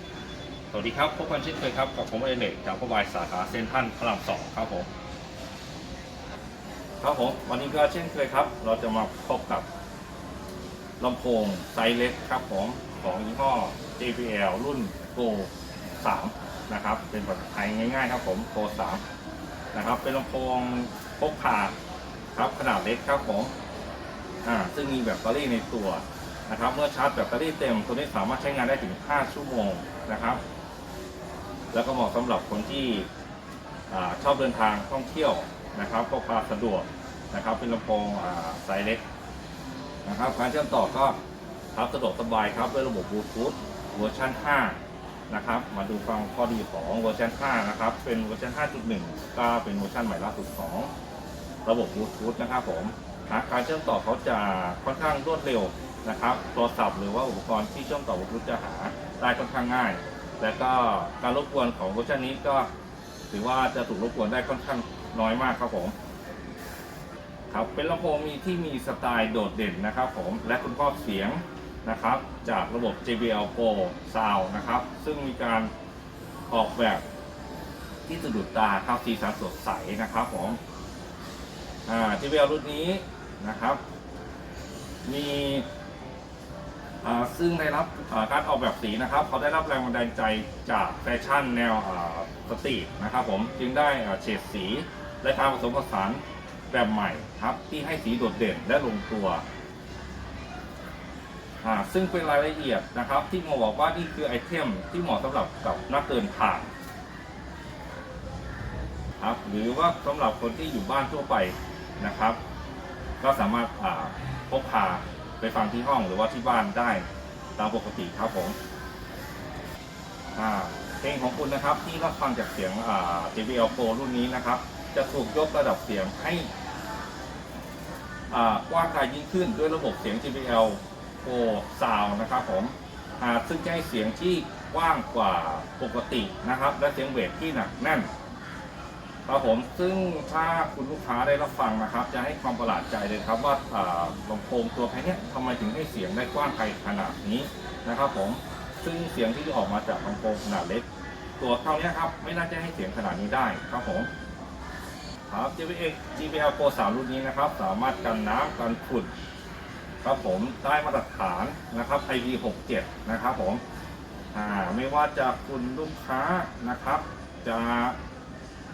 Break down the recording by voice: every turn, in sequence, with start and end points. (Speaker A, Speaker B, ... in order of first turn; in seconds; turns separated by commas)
Speaker A: 0.7-4.9, Speaker A: 7.0-9.7, Speaker A: 11.0-19.0, Speaker A: 19.7-21.7, Speaker A: 22.3-23.5, Speaker A: 24.4-30.4, Speaker A: 31.7-33.1, Speaker A: 33.9-39.0, Speaker A: 40.0-41.2, Speaker A: 41.7-50.9, Speaker A: 51.6-62.7, Speaker A: 63.3-65.9, Speaker A: 67.5-75.7, Speaker A: 76.5-77.0, Speaker A: 78.0-80.6, Speaker A: 81.9-83.8, Speaker A: 85.0-85.7, Speaker A: 87.0-99.4, Speaker A: 101.6-106.7, Speaker A: 109.2-112.4, Speaker A: 113.2-118.5, Speaker A: 120.3-126.5, Speaker A: 128.3-138.1, Speaker A: 139.2-150.8, Speaker A: 151.4-154.1, Speaker A: 155.3-159.1, Speaker A: 160.0-163.6, Speaker A: 164.3-168.0